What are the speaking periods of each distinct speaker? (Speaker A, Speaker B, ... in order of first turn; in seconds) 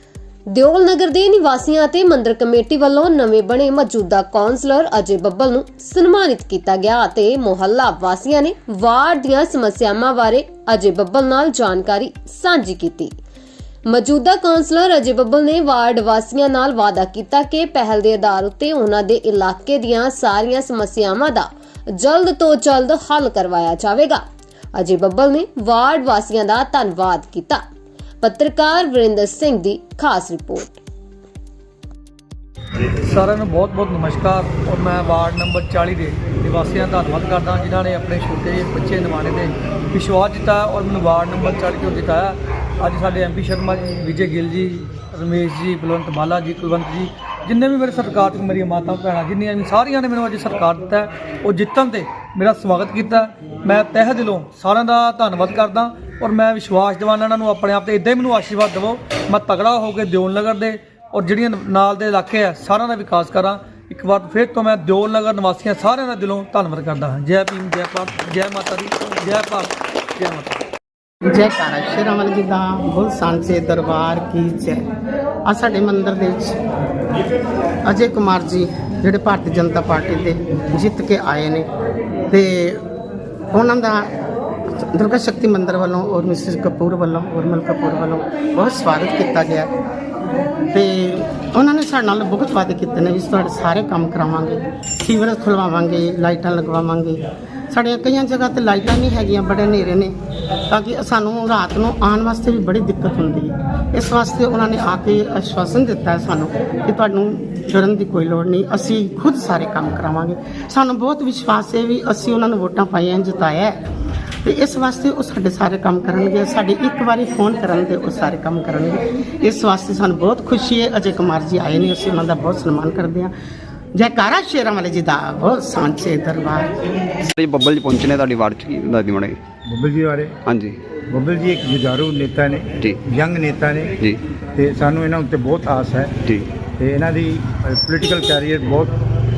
Speaker A: 0.5-13.1, 13.9-24.2, 24.8-27.6, 28.2-30.8
Speaker B: 33.0-70.6
Speaker C: 71.3-74.8, 75.5-76.6, 77.9-81.7, 82.3-82.8, 83.5-84.1, 84.8-89.7, 90.7-100.1, 100.7-113.8, 114.4-123.3, 123.9-126.7
Speaker D: 127.2-129.4, 130.4-130.7
Speaker E: 129.7-130.4, 131.1-134.0, 134.5-136.2, 136.8-138.9